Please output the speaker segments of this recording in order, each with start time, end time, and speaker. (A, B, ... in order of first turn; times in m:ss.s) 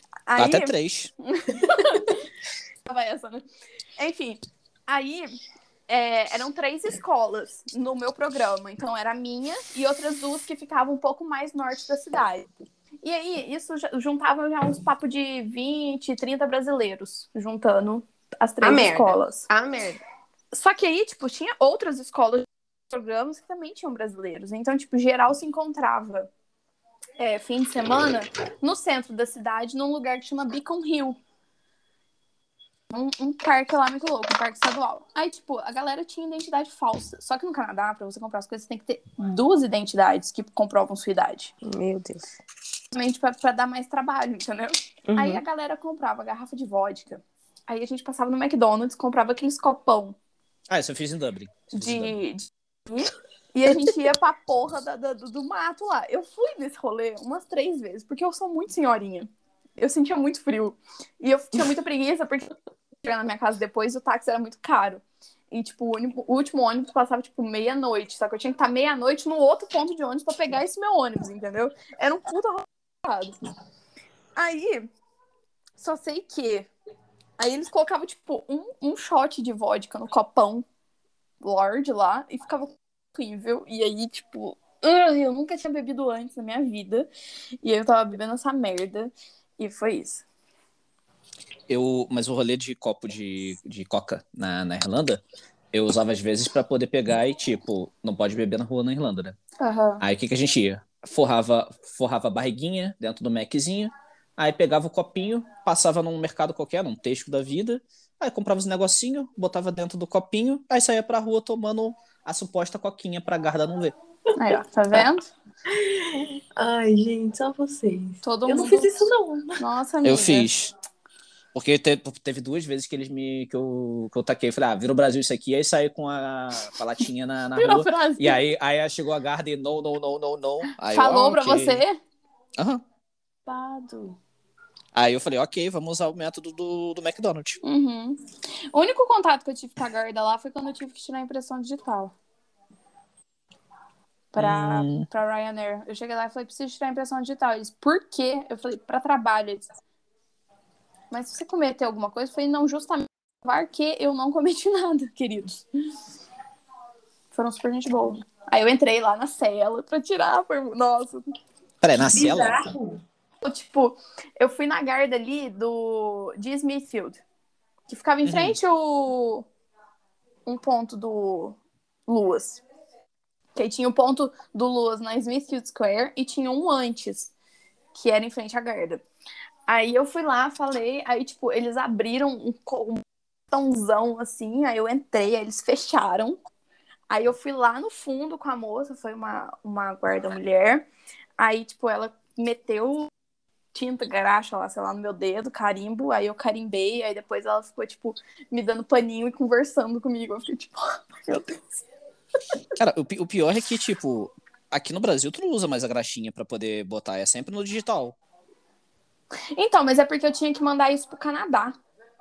0:00.3-0:00.7 A
0:00.4-0:01.1 B
0:01.2-0:02.2 A
0:02.8-0:03.4 A
0:04.0-0:12.4 A
0:13.0-0:19.5 A
0:18.6-0:20.0 C
0:20.5-0:26.3 A
0:27.2-0:31.2 A
0:32.9-0:41.5 A
0:41.6-0:42.3 C
0:42.9-0:50.2 A
0:45.1-0:45.4 C
0:50.7-0:52.2 B
0:51.7-1:02.5 A
1:03.0-1:13.3 A
1:14.4-1:14.9 A
1:15.8-1:16.7 A
1:17.4-1:20.6 A
1:21.4-1:27.1 A
1:27.6-1:30.2 A
1:31.7-1:39.4 B
1:39.6-1:40.0 A
1:40.0-1:53.9 B
1:54.4-1:55.3 A
1:55.7-1:59.6 C
1:58.2-1:58.9 A
1:59.6-2:00.5 A
2:00.0-2:00.7 B
2:01.5-2:11.8 B
2:07.6-2:08.4 A
2:10.8-2:12.0 A
2:12.6-2:12.8 B
2:13.5-2:14.2 A
2:14.9-2:17.6 B
2:17.6-2:22.1 A
2:24.3-2:29.6 A
2:24.4-2:25.0 B
2:31.1-2:35.6 A
2:37.3-2:41.3 A
2:41.8-2:42.6 B
2:42.1-2:43.0 C
2:43.4-2:47.2 A
2:47.9-2:49.5 A
2:48.2-2:48.6 B
2:50.4-2:52.6 A
2:53.6-2:57.3 A
2:57.9-2:59.0 A
2:59.7-3:06.4 A
3:07.1-3:10.8 A
3:11.4-3:13.1 A
3:13.7-3:21.8 A
3:22.8-3:28.2 B
3:29.5-3:31.8 A